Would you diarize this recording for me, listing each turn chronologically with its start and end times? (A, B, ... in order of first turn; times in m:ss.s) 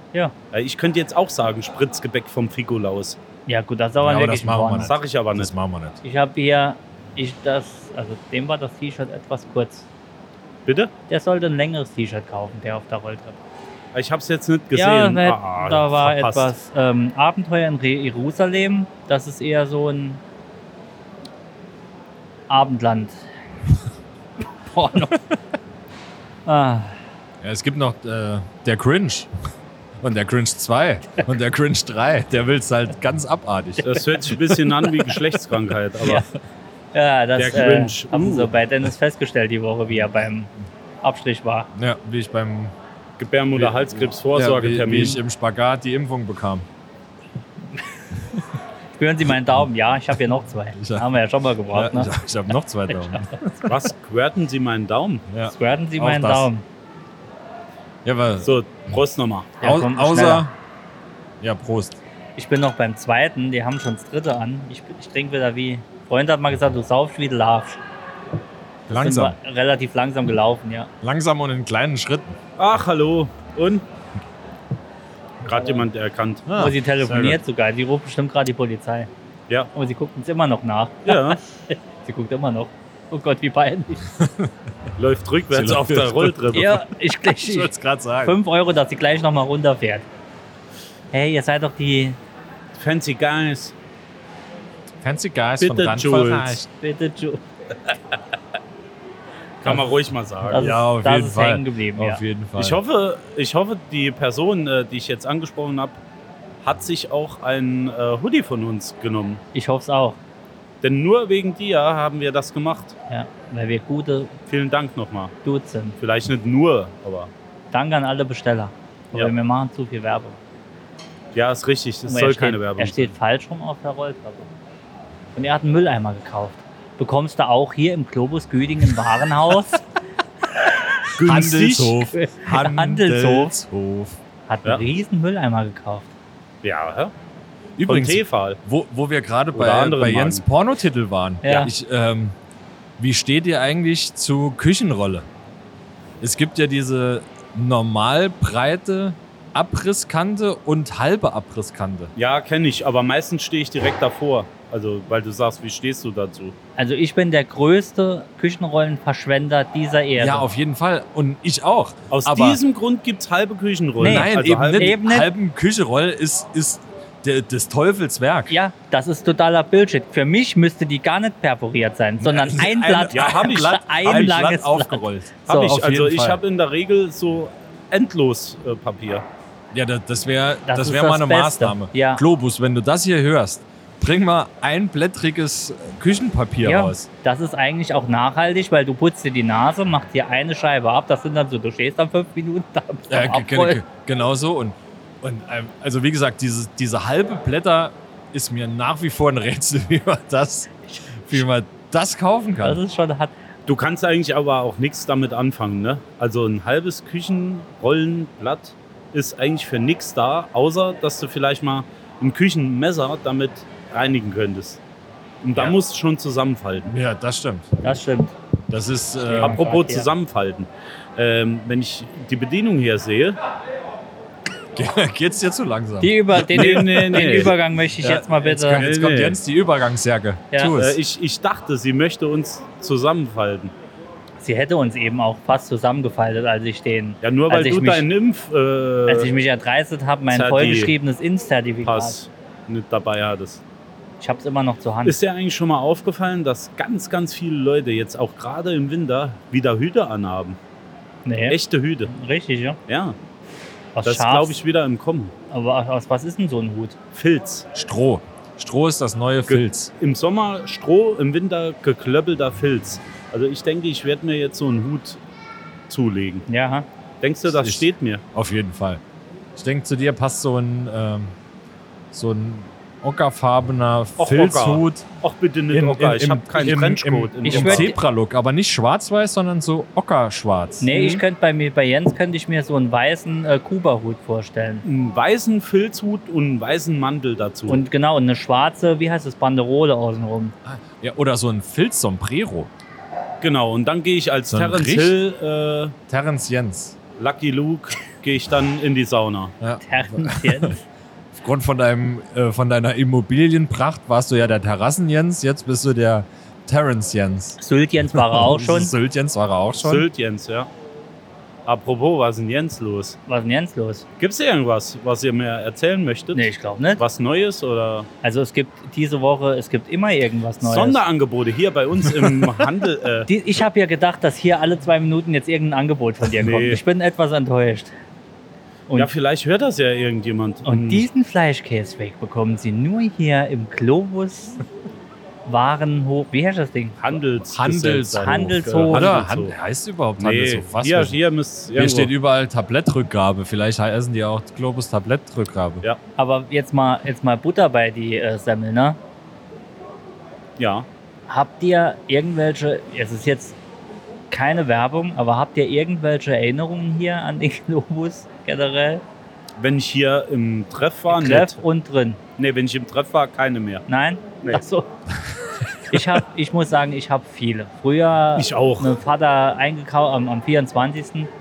0:00.5-0:03.2 A
0:03.5-0:04.9 B
0:04.0-0:06.0 C
0:04.8-0:05.5 A
0:06.0-0:09.9 B
0:10.6-0:10.9 A
0:11.1-0:13.4 B
0:13.9-0:16.6 A
0:14.7-0:20.2 B
0:22.5-0:23.3 B
0:24.6-0:25.2 B
0:26.4-0:27.0 B
0:27.4-0:29.3 C
0:30.0-0:34.0 C
0:33.8-0:36.2 A
0:36.9-0:40.5 B
0:37.4-0:38.5 A
0:41.0-0:41.7 B
0:41.7-0:42.7 C
0:43.2-0:45.2 A
0:43.6-0:46.6 C
0:49.0-0:52.1 B
0:50.8-0:51.1 C
0:51.7-0:53.7 C
0:52.9-0:53.3 B
0:53.6-0:55.2 A
0:55.3-0:56.5 C
0:55.5-0:56.6 B
0:58.0-0:58.5 C
0:58.4-0:59.5 A
0:59.6-1:00.4 B
0:59.6-1:00.5 C
1:01.4-1:02.0 C
1:02.4-1:07.8 B
1:08.9-1:09.4 C
1:08.9-1:10.9 B
1:11.0-1:12.4 C
1:12.6-1:13.8 A
1:15.4-1:16.5 A
1:16.5-1:17.4 C
1:16.5-1:19.1 B
1:19.7-1:24.0 B
1:21.0-1:21.4 A
1:24.1-1:24.5 C
1:25.0-1:26.8 A
1:25.5-1:26.8 C
1:26.5-1:30.0 B
1:27.4-1:28.4 C
1:31.1-1:32.2 B
1:32.8-1:33.7 A
1:35.0-1:36.7 C
1:35.6-1:36.6 A
1:36.7-1:37.4 B
1:39.6-1:40.7 A
1:40.5-1:42.2 B
1:40.5-1:42.8 C
1:42.6-1:46.0 A
1:46.6-1:49.4 A
1:49.5-1:50.2 B
1:50.8-1:52.9 A
1:53.1-1:54.3 B
1:54.5-1:55.3 A
1:55.4-1:56.0 B
1:56.0-1:57.3 A
1:57.7-2:00.4 B
2:01.3-2:03.1 A
2:02.1-2:04.5 B
2:05.3-2:09.8 B
2:11.2-2:14.2 C
2:11.2-2:11.9 A
2:12.1-2:13.5 B
2:14.5-2:16.1 B
2:16.6-2:17.1 A
2:17.8-2:22.3 C
2:17.8-2:18.6 A
2:19.5-2:20.4 A
2:21.4-2:21.7 B
2:23.0-2:25.3 C
2:26.2-2:32.1 C
2:32.2-2:36.5 A
2:36.8-2:40.4 B
2:40.2-2:42.6 C
2:42.1-2:44.9 A
2:44.0-2:45.3 B
2:44.0-2:48.5 C
2:48.5-2:55.7 B
2:52.2-2:56.4 C
2:53.1-2:53.8 A
2:55.5-2:59.2 A
2:59.7-3:07.1 C
3:00.6-3:02.2 B
3:06.6-3:13.8 B
3:13.1-3:22.8 C
3:20.9-3:21.4 B
3:22.6-3:23.3 B
3:23.7-3:34.8 A
3:35.4-3:36.9 A
3:36.9-3:37.8 C
3:37.8-3:38.3 B
3:38.7-3:39.6 C
3:39.2-3:40.1 B
3:39.4-3:43.4 A
3:44.7-3:51.0 C
3:46.0-3:48.8 B
3:46.5-3:47.5 A
3:48.7-3:49.4 A
3:50.8-3:53.7 A
3:54.4-3:58.0 B
3:57.2-3:59.3 A
3:59.1-4:02.1 B
4:00.3-4:00.9 A
4:01.8-4:03.6 A
4:04.2-4:05.2 B
4:05.0-4:10.6 A
4:11.2-4:12.8 B
4:11.5-4:12.1 A
4:12.9-4:13.2 A
4:14.0-4:14.6 B
4:14.0-4:15.3 A
4:15.5-4:17.0 B
4:17.1-4:17.7 A
4:17.7-4:19.9 C
4:19.5-4:25.2 A
4:25.9-4:26.4 A
4:26.5-4:26.8 B
4:27.2-4:28.2 A
4:27.5-4:29.0 C
4:29.6-4:31.3 C
4:32.1-4:35.0 C
4:34.2-4:37.9 A
4:35.7-4:40.9 C
4:37.4-4:38.0 B
4:40.8-4:44.8 B
4:40.9-4:41.2 A
4:44.8-4:47.8 A
4:47.7-4:50.5 B
4:50.6-4:52.7 C
4:53.4-4:55.9 A
4:54.5-4:55.2 C
4:56.1-4:57.0 C
4:57.2-4:59.5 A
4:59.6-5:00.8 C
4:59.8-5:00.8 B
5:01.3-5:07.6 C
5:07.6-5:08.9 B
5:08.1-5:10.0 C
5:09.8-5:10.7 A
5:11.6-5:13.2 A
5:13.3-5:14.0 B
5:14.2-5:18.1 A
5:16.3-5:17.0 B
5:18.2-5:21.0 B
5:20.6-5:23.3 A
5:23.3-5:27.9 B
5:26.4-5:26.8 A
5:29.0-5:31.1 A
5:30.6-5:34.6 B
5:35.4-5:37.2 B
5:37.0-5:39.6 A
5:37.4-5:41.2 C
5:38.2-5:39.1 B
5:40.2-5:42.1 A
5:41.7-5:45.8 C
5:46.2-5:49.0 B
5:50.6-5:50.9 A
5:51.3-5:53.6 B
5:54.3-5:59.0 B
5:59.6-6:01.6 A
6:01.1-6:02.2 B
6:02.4-6:03.8 A
6:03.9-6:04.9 B
6:05.9-6:11.3 B
6:08.4-6:09.0 A